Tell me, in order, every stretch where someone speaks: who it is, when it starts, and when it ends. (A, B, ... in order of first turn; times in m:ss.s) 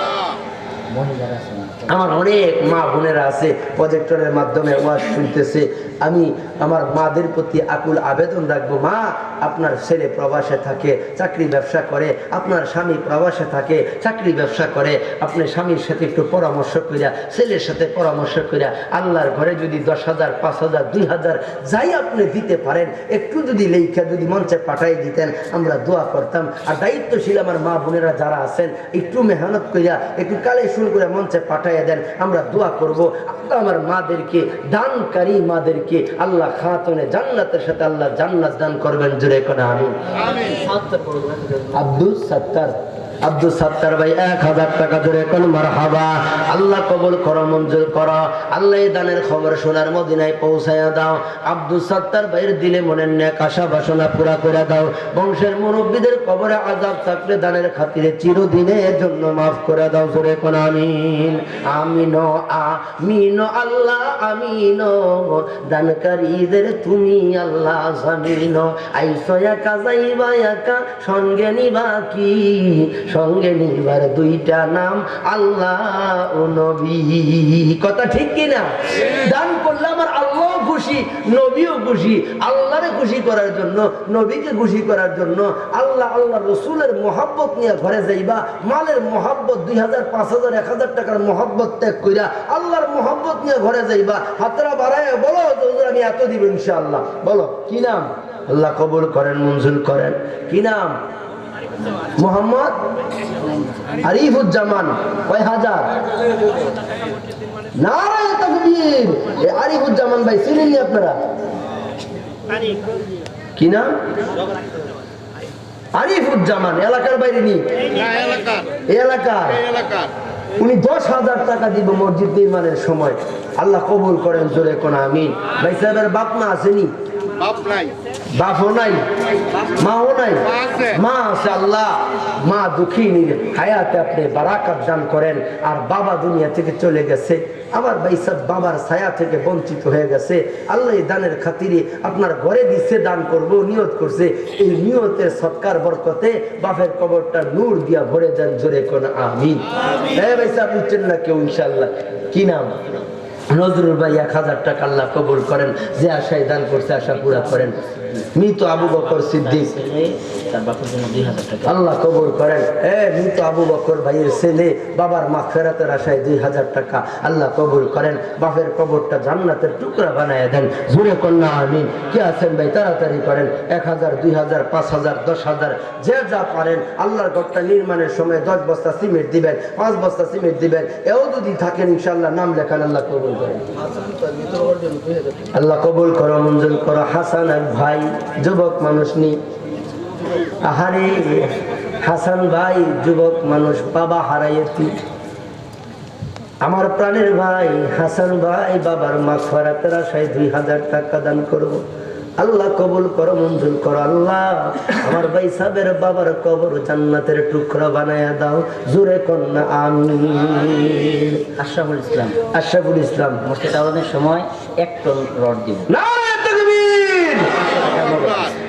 0:00.9-0:02.0 A
0:01.9-0:40.1 B
0:40.4-0:41.6 A
0:41.7-1:41.0 B
1:42.2-1:42.8 B
1:44.0-1:46.0 B
1:47.8-1:51.2 B
1:53.6-1:53.9 B
1:56.0-1:57.6 B
1:58.9-1:59.6 B
2:00.6-2:06.9 B
2:08.3-2:09.0 B
2:09.8-2:32.9 B
2:33.5-2:37.8 B
2:37.6-2:38.0 A
2:38.3-2:39.8 B
2:38.9-2:41.8 A
2:41.6-3:03.8 B
3:05.5-3:09.4 B
3:10.6-3:14.9 B
3:16.6-3:21.8 B
3:22.4-3:31.5 B
3:31.6-3:32.4 A
3:32.4-3:33.4 B
3:33.4-3:35.9 A
3:35.9-3:37.6 B
3:37.6-3:38.5 A